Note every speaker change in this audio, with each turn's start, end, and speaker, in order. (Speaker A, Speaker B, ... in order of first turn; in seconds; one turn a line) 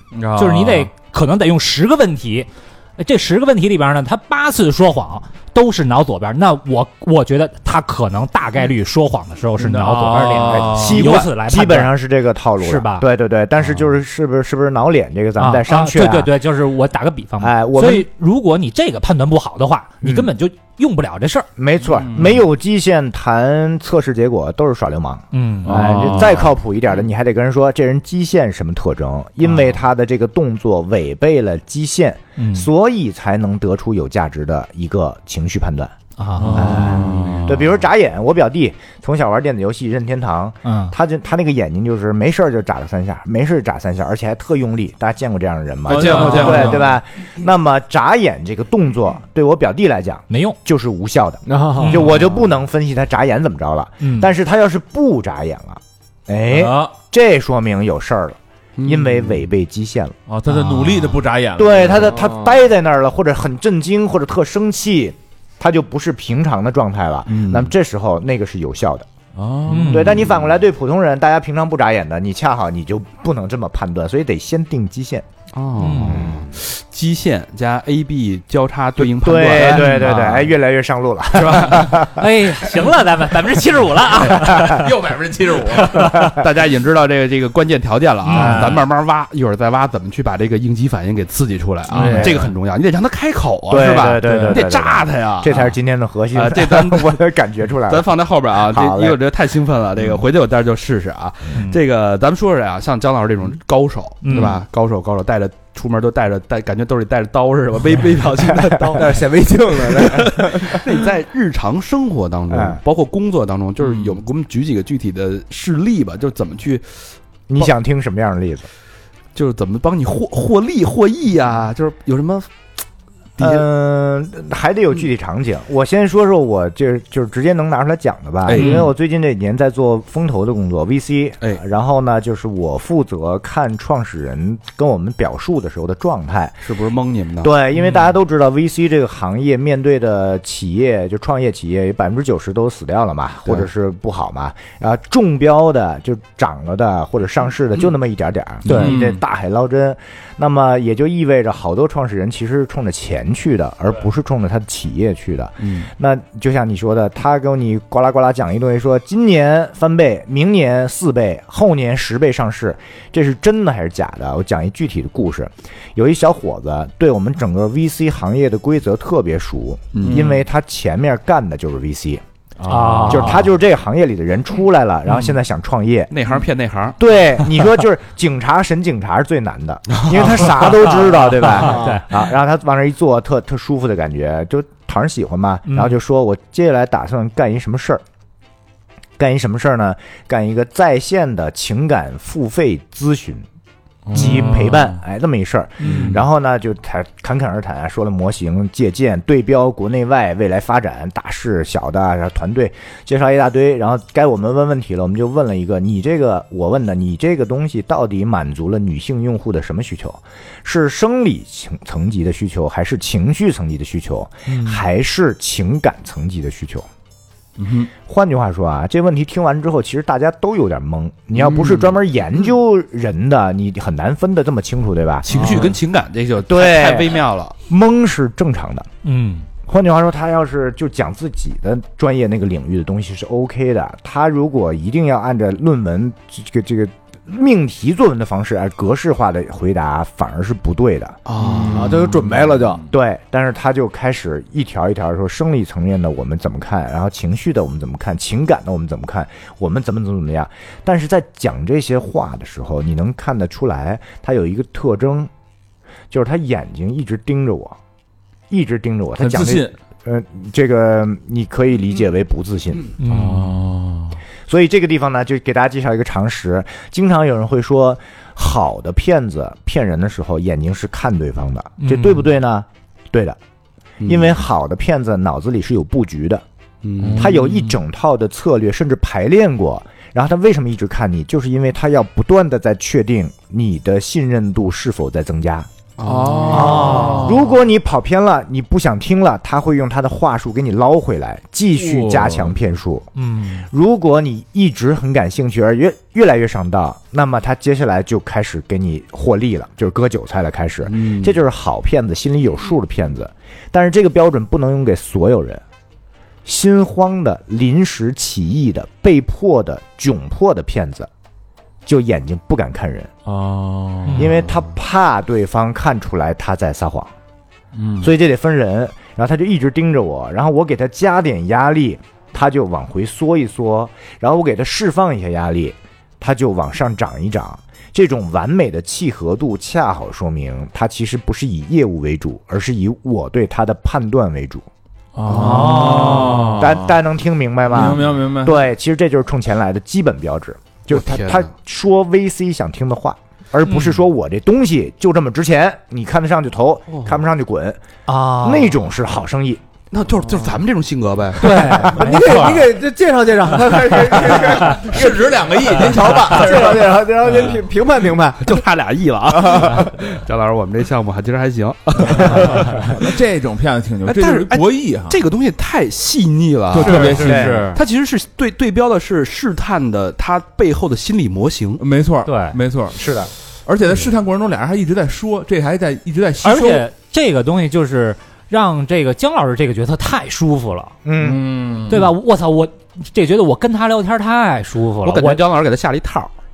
Speaker A: 0.1-0.9
Speaker B: 0.3-11.9
Speaker A: 9.6-11.2
Speaker C: 10.5-16.3
Speaker B: 12.6-13.1
Speaker B: 15.4-21.5
Speaker C: 17.4-18.1
Speaker C: 20.0-20.3
Speaker C: 21.6-35.9
Speaker B: 25.3-26.2
Speaker A: 25.6-26.5
Speaker B: 32.4-32.7
Speaker B: 36.2-37.0
Speaker A: 36.4-37.5
Speaker C: 36.5-60.1
Speaker D: 36.7-37.4
Speaker B: 40.6-40.9
Speaker A: 45.9-46.9
Speaker D: 45.9-46.8
Speaker B: 46.0-46.7
Speaker B: 50.3-50.6
Speaker E: 51.5-52.1
Speaker B: 51.8-52.2
Speaker B: 54.0-54.3
Speaker A: 56.5-56.9
Speaker D: 58.8-59.3
Speaker A: 60.3-62.2
Speaker B: 60.5-61.2
Speaker C: 61.5-69.1
Speaker D: 67.3-67.7
Speaker A: 69.3-70.1
Speaker B: 69.7-70.2
Speaker C: 69.9-75.2
Speaker D: 75.5-80.2
Speaker B: 75.8-76.3
Speaker C: 76.1-76.5
Speaker C: 79.0-82.2
Speaker B: 79.6-80.5
Speaker D: 81.3-81.9
Speaker B: 82.0-85.0
Speaker A: 84.2-86.2
Speaker B: 85.8-86.3
Speaker D: 86.2-95.7
Speaker B: 88.2-88.8
Speaker B: 91.9-92.4
Speaker C: 91.9-92.4
Speaker C: 93.7-98.1
Speaker B: 94.2-94.5
Speaker D: 96.3-97.3
Speaker D: 97.9-109.2
Speaker C: 98.6-99.2
Speaker B: 104.2-104.6
Speaker E: 108.9-110.8
Speaker D: 109.8-117.1
Speaker C: 112.5-112.8
Speaker C: 117.5-118.7
Speaker D: 119.3-122.5
Speaker D: 123.4-123.7
Speaker C: 123.4-136.6
Speaker D: 128.4-128.9
Speaker B: 128.5-128.9
Speaker D: 136.6-137.5
Speaker C: 137.4-172.2
Speaker B: 148.7-148.9
Speaker D: 148.7-148.9
Speaker A: 148.8-149.2
Speaker D: 169.9-170.4
Speaker D: 172.7-173.3
Speaker B: 172.7-173.5
Speaker C: 173.1-176.1
Speaker D: 176.1-177.0
Speaker C: 177.0-188.0
Speaker B: 180.5-182.1
Speaker E: 181.6-182.0
Speaker B: 185.7-185.9
Speaker C: 189.2-193.4
Speaker A: 194.1-194.8
Speaker C: 194.1-216.9
Speaker B: 194.2-194.6
Speaker B: 195.8-196.2
Speaker B: 214.5-214.8
Speaker D: 217.6-217.9
Speaker C: 218.0-225.3
Speaker D: 221.4-221.9
Speaker D: 225.2-227.5
Speaker C: 226.4-228.9
Speaker B: 229.0-229.5
Speaker C: 229.7-241.2
Speaker D: 241.3-242.0
Speaker A: 241.3-242.0
Speaker E: 241.5-242.8
Speaker C: 242.9-255.3
Speaker C: 256.1-257.8
Speaker C: 258.5-262.9
Speaker A: 259.2-259.7
Speaker B: 263.0-263.6
Speaker A: 263.1-264.1
Speaker C: 264.5-273.4
Speaker B: 271.8-272.2
Speaker D: 274.0-274.4
Speaker C: 274.0-276.4
Speaker D: 276.8-277.4
Speaker A: 277.1-277.3
Speaker C: 277.1-285.7
Speaker D: 286.0-287.3
Speaker A: 286.0-287.3
Speaker B: 286.5-287.3
Speaker C: 286.5-305.6
Speaker A: 291.9-292.3
Speaker B: 293.1-293.6
Speaker C: 306.4-311.1
Speaker C: 311.9-313.1
Speaker A: 313.2-314.3
Speaker C: 314.1-317.1
Speaker A: 317.7-318.1
Speaker C: 318.0-334.7
Speaker A: 335.1-336.9
Speaker D: 335.2-336.5
Speaker B: 335.4-336.5
Speaker C: 336.3-347.8
Speaker A: 337.7-338.6
Speaker D: 340.9-341.5
Speaker B: 343.6-344.0
Speaker B: 348.1-348.8
Speaker C: 348.4-349.6
Speaker D: 349.9-351.8
Speaker B: 351.4-352.8
Speaker C: 351.7-352.1
Speaker E: 351.8-358.6
Speaker A: 354.0-356.8
Speaker D: 358.4-363.0
Speaker A: 362.2-365.2
Speaker D: 364.0-371.8
Speaker A: 366.7-367.7
Speaker B: 366.8-367.8
Speaker C: 367.2-367.7
Speaker A: 371.8-373.1
Speaker B: 372.2-372.6
Speaker C: 372.9-373.3
Speaker A: 373.6-376.9
Speaker B: 376.4-380.9
Speaker C: 381.0-381.8
Speaker A: 381.2-382.1
Speaker B: 381.9-385.4
Speaker D: 385.0-386.3